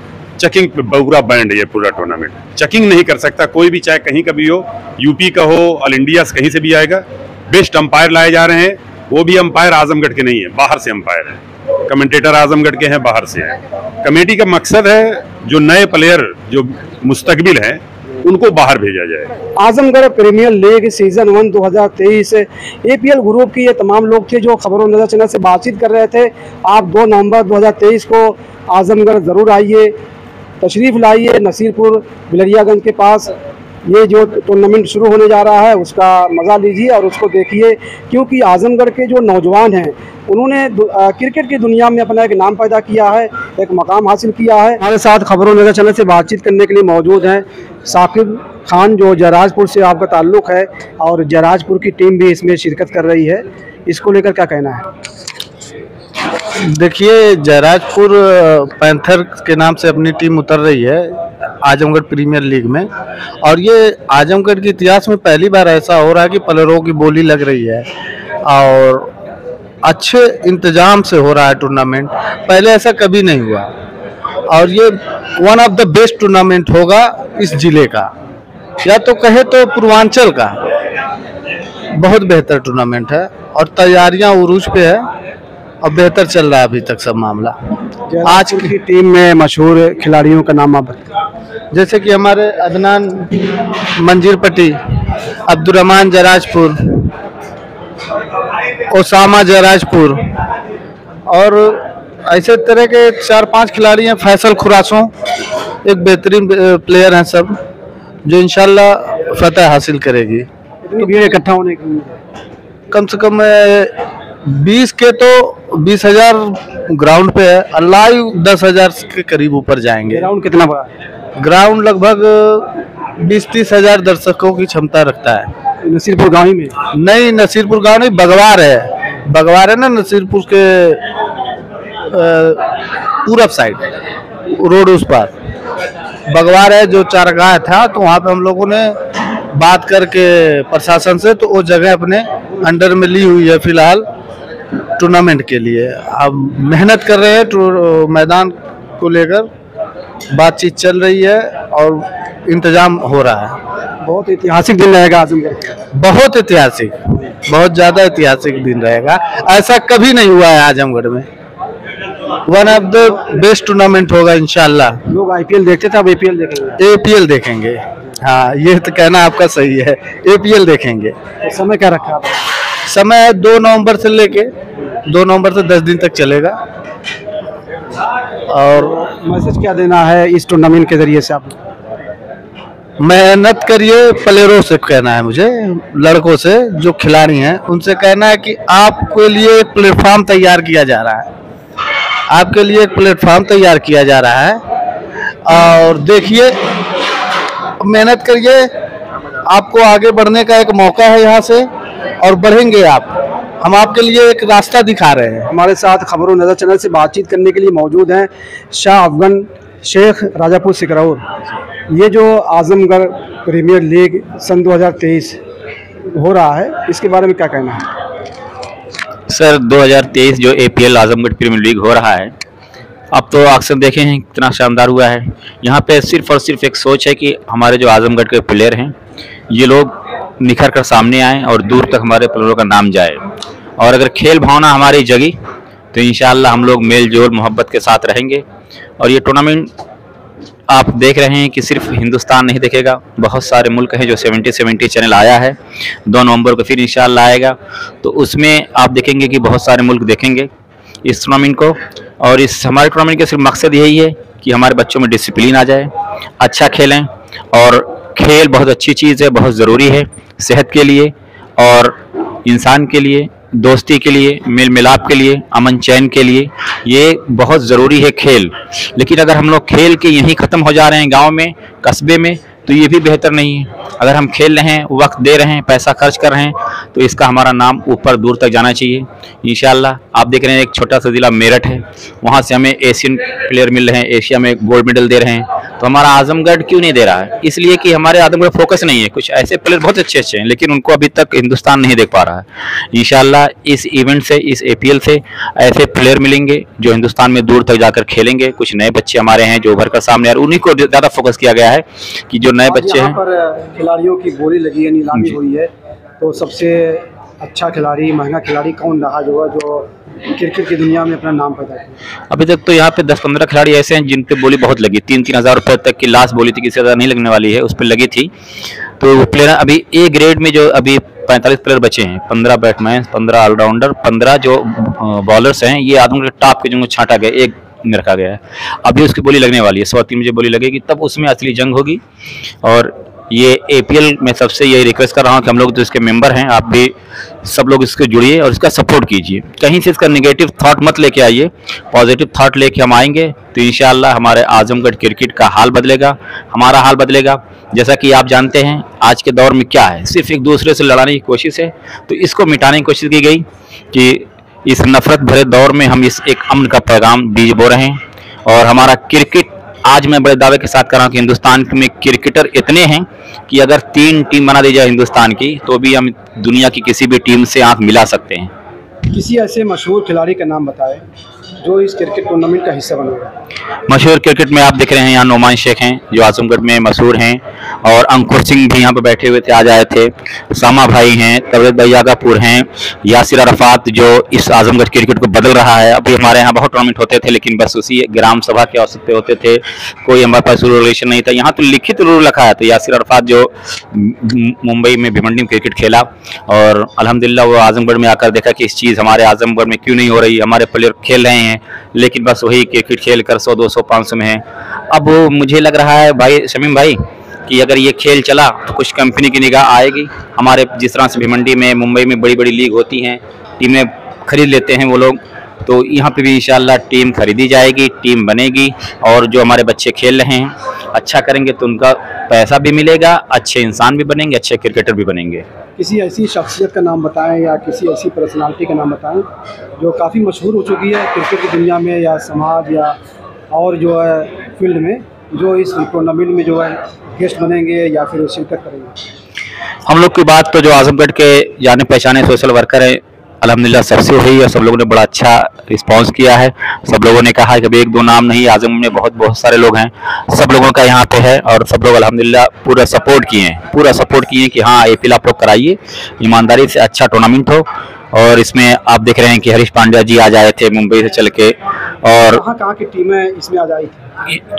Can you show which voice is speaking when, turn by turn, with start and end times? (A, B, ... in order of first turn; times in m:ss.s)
0:00.4-0:19.3 A
0:19.6-0:29.9 B
0:30.6-0:33.3 B
0:33.8-0:54.8 B
0:56.6-1:02.9 C
1:03.4-1:07.9 C
1:08.4-1:09.1 C
1:09.8-1:13.7 C
1:14.5-1:18.1 C
1:18.8-1:20.8 C
1:21.9-1:25.1 C
1:25.8-1:27.6 C
1:28.1-1:31.1 B
1:28.2-1:28.7 C
1:31.7-1:34.8 C
1:35.4-1:37.1 C
1:38.9-1:40.2 C
1:41.3-1:45.3 C
1:45.8-1:47.6 C
1:48.2-1:50.5 C
1:50.8-1:52.2 B
1:51.0-1:51.4 C
1:52.9-2:00.3 C
2:00.1-2:00.9 B
2:01.4-2:05.5 C
2:05.8-2:06.7 B
2:06.9-2:11.1 C
2:12.0-2:13.9 C
2:14.5-2:15.3 C
2:16.3-2:24.1 C
2:25.0-2:29.5 C
2:30.3-2:33.6 C
2:34.0-2:35.8 B
2:35.9-2:41.3 C
2:42.4-2:45.0 C
2:45.1-2:46.8 B
2:46.8-2:51.2 C
2:51.4-2:52.4 B
2:52.9-2:56.6 C
2:58.5-2:59.0 C
2:58.7-3:01.6 B
3:03.0-3:11.3 C
3:12.3-3:14.6 C
3:15.4-3:17.0 C
3:17.8-3:18.7 C
3:19.4-3:21.7 C
3:22.2-3:25.5 C
3:25.5-3:31.2 B
3:31.9-3:35.4 B
3:36.1-3:37.9 B
3:39.3-3:42.3 D
3:43.1-3:48.9 D
3:49.5-3:53.2 D
3:53.8-3:55.4 D
3:55.9-3:58.4 D
3:59.0-3:59.7 D
4:00.7-4:05.6 D
4:06.1-4:10.5 D
4:11.0-5:03.2 D
5:02.7-5:12.0 B
5:12.3-5:18.3 D
5:19.0-5:32.0 D
5:32.6-5:36.9 D
5:37.4-6:08.5 D
6:09.1-6:11.0 B
6:11.6-6:13.3 B
6:13.9-7:05.4 D
7:05.8-7:09.2 B
7:09.8-7:13.0 B
7:13.5-7:18.9 B
7:19.8-7:42.4 D
7:42.3-7:44.0 B